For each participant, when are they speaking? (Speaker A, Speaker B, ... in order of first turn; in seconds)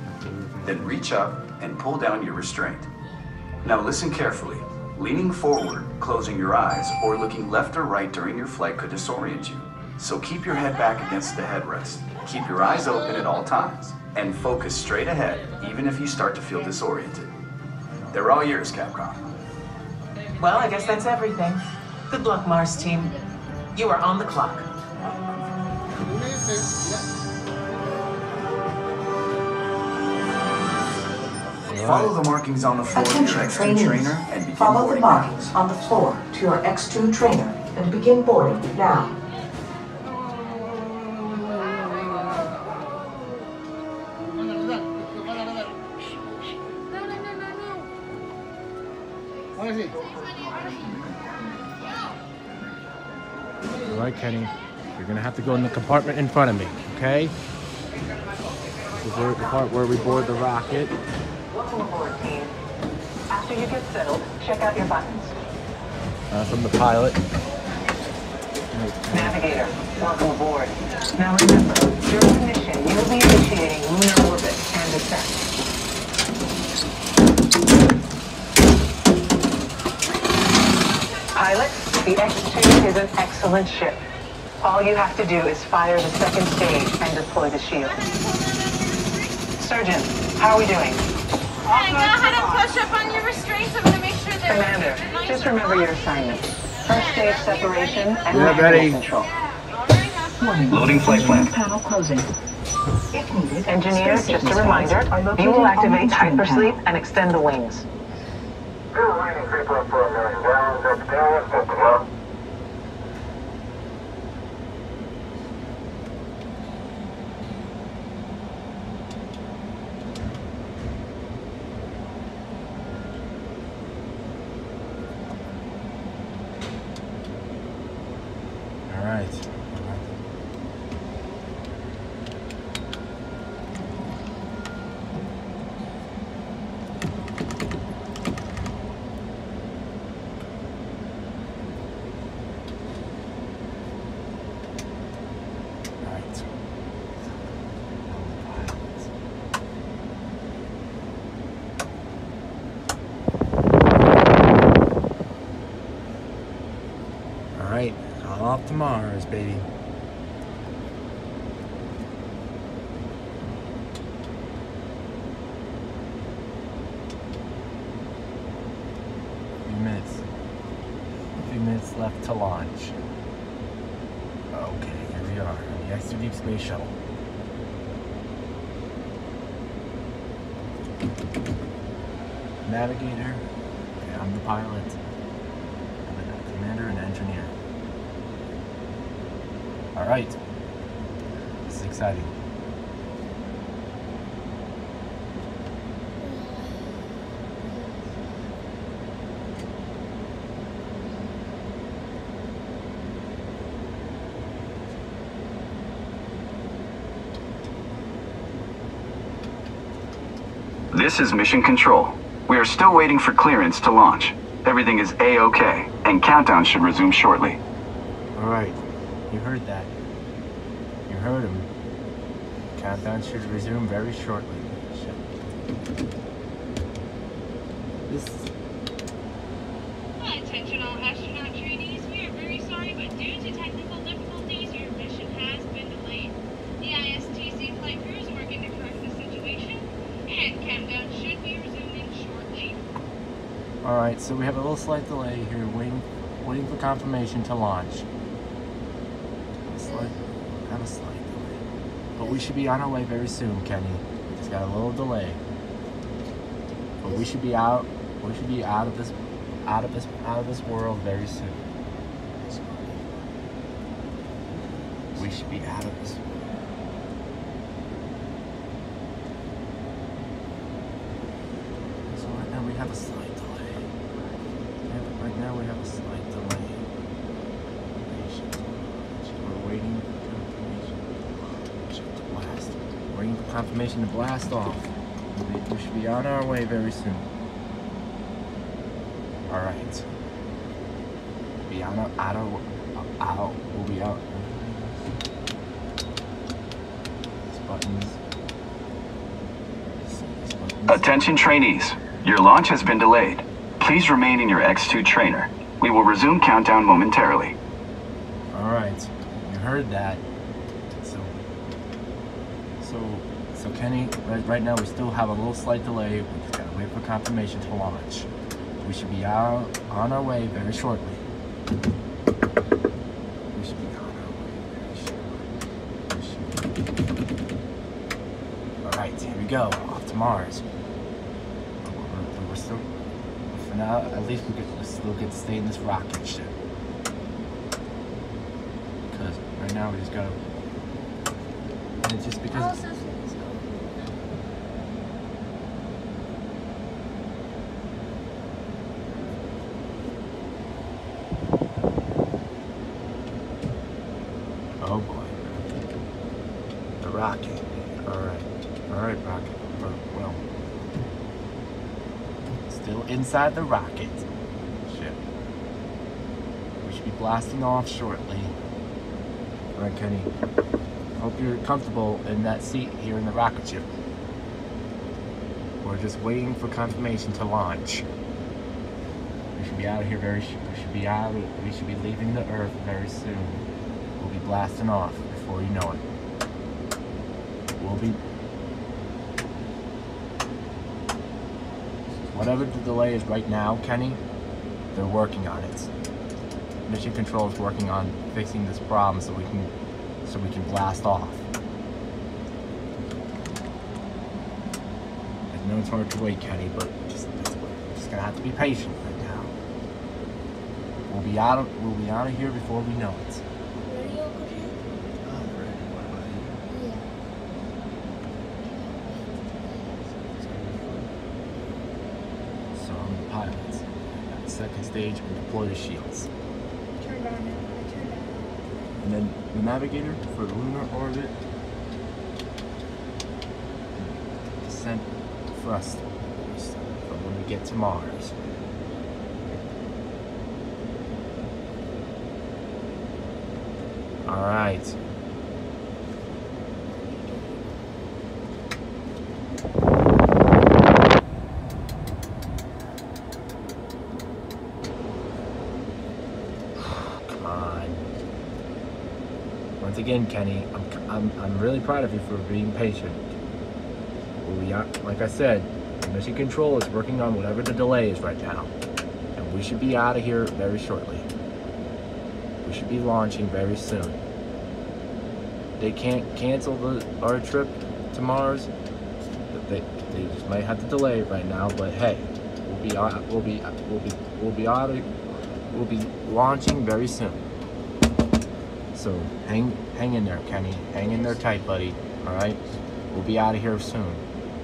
Speaker A: 0.1-1.0, 31.7-32.1, 53.9-57.3, 59.0-60.9, 66.3-67.2, 68.7-69.5, 98.3-99.0, 128.9-130.1, 146.0-146.5, 148.1-149.1, 157.5-159.7, 169.7-170.2, 171.4-172.9, 174.5-176.9, 182.6-183.4, 184.0-185.0, 186.0-187.5, 189.9-190.3, 191.7-192.3, 218.3-218.8, 219.3-219.9, 221.1-221.7, 222.8-225.4, 228.1-228.5, 243.8-248.0, 249.7-251.6, 252.2-255.4, 257.0-261.6, 265.1-266.2, 272.1-273.9, 274.9-276.8, 278.0-287.2, 289.5-290.0, 291.7-295.0, 297.5-298.2, 300.0-301.2, 308.5-310.2, 310.9-311.5, 312.8-318.3, 318.8-321.2, 323.5-325.5, 326.1-326.7, 328.8-330.6, 331.8-332.8, 333.5-336.5, 339.1-340.4, 342.0-342.8, 354.8-355.7, 357.0-360.4, 362.7-364.2, 364.8-365.2, 366.8-368.5, 369.8-370.3, 371.2-373.9, 375.8-378.0, 379.5-383.6, 384.2-386.0, 387.8-388.2, 392.3-394.2, 394.9-395.9, 396.9-399.7, 400.2-401.4, 405.5-409.5, 411.1-413.4, 415.3-416.5, 420.5-421.0, 422.8-426.3, 429.0-431.4, 433.9-438.3, 444.2-444.9, 457.0-458.1, 459.8-463.3, 464.4-468.7, 469.3-471.3, 472.6-474.2, 475.8-478.7, 479.5-485.1, 485.7-487.4, 488.9-492.6, 493.1-494.2
Speaker B: 0.6-2.9, 3.6-17.3, 18.1-19.3, 31.8-35.5, 100.7-101.5, 210.9-217.6, 300.9-307.6
Speaker C: 20.4-23.1, 23.7-24.7, 61.5-62.5, 63.3-65.3, 69.1-75.5, 81.3-84.0, 84.6-88.0, 89.6-91.0, 91.7-92.6, 94.5-99.3, 103.7-107.8
Speaker D: 32.9-39.1, 100.4-102.3, 103.1-106.8
Speaker E: 88.3-89.3, 91.7-95.1, 230.2-242.8
Speaker F: 196.2-196.7, 249.8-250.2, 252.2-252.5, 257.0-257.3, 262.4-262.9, 342.5-344.2, 413.8-414.8, 416.7-417.1, 418.6-420.1, 426.9-428.7